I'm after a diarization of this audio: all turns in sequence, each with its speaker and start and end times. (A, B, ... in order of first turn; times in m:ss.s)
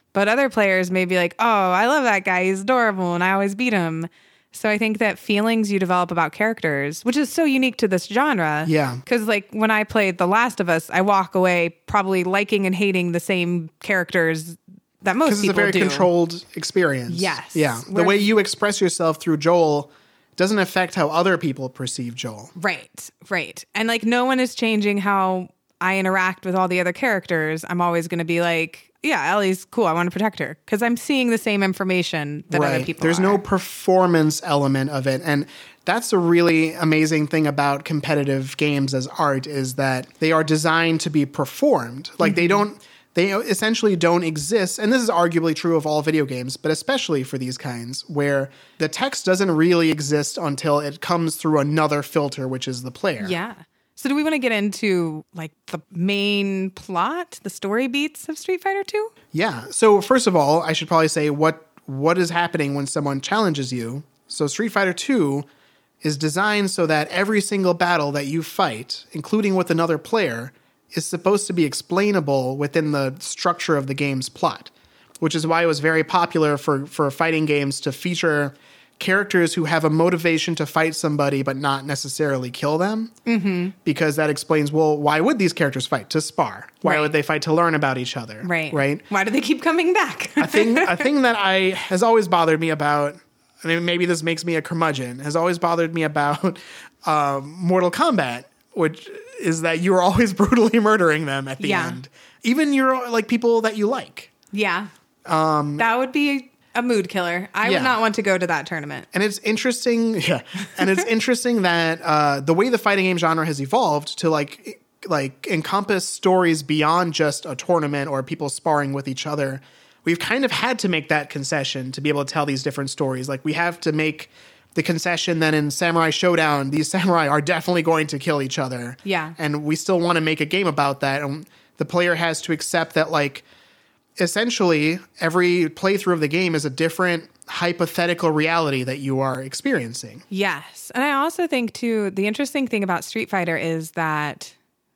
0:00.1-0:16.1 A
0:08.6-0:09.0 B
0:15.3-0:22.5 B
0:17.1-0:18.2 A
0:22.6-0:33.4 A
0:32.5-0:53.4 B
0:42.2-0:42.6 A
0:53.2-0:59.1 A
0:59.3-1:05.5 B
1:06.0-1:23.1 B
1:23.3-1:23.8 A
1:23.8-1:29.0 B
1:26.8-1:27.1 A
1:28.4-1:31.1 A
1:30.4-1:44.3 B
1:41.6-1:42.0 A
1:44.5-1:44.9 A
1:45.2-1:45.9 B
1:45.8-1:49.1 A
1:47.6-1:48.0 B
1:49.1-2:13.4 B
2:09.0-2:09.4 A
2:14.2-2:20.2 B
2:20.3-2:24.5 A